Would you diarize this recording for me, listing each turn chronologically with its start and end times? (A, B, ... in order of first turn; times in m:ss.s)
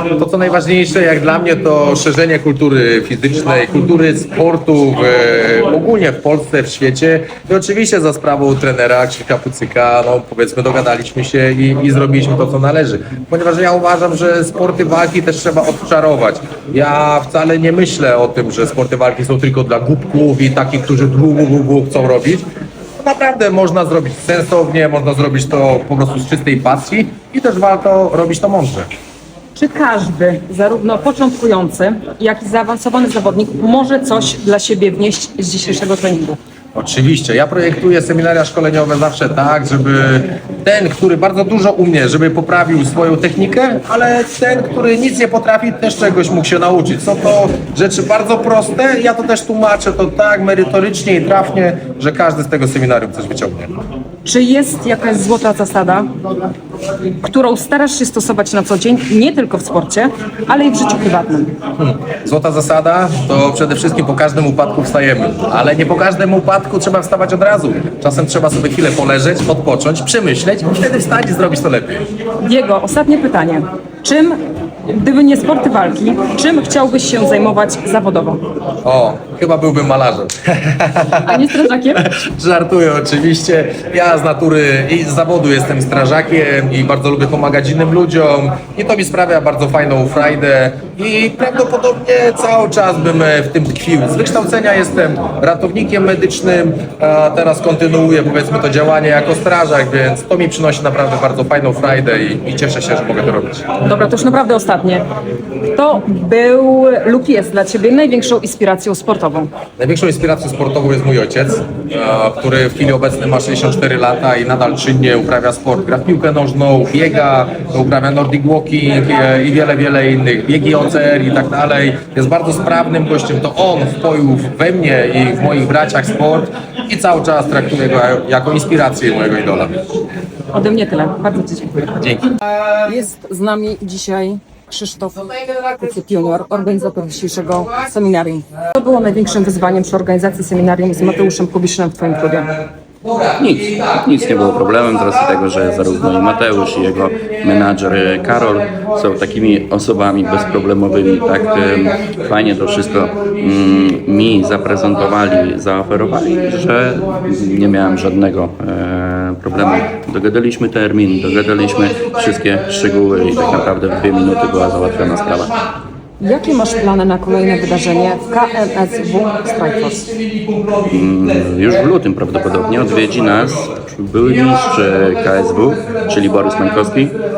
0:00.2-0:22.4 A
0:23.0-0:28.9 A
0:29.5-0:36.4 B
0:36.7-0:53.7 A
0:54.2-0:56.1 B
0:57.2-1:01.5 B
1:01.8-1:12.0 A
1:12.4-1:18.4 B
1:18.8-1:43.6 A
1:21.2-1:22.0 B
1:43.8-1:45.0 B
1:45.6-1:49.5 B
1:49.8-2:09.7 A
2:10.5-2:12.0 B
2:12.7-2:22.5 B
2:23.4-2:45.5 C
2:41.9-2:45.6 A
2:46.2-2:50.1 B
2:50.1-2:51.4 A
2:50.9-2:57.2 C
2:52.6-2:53.8 A
2:56.4-2:56.9 A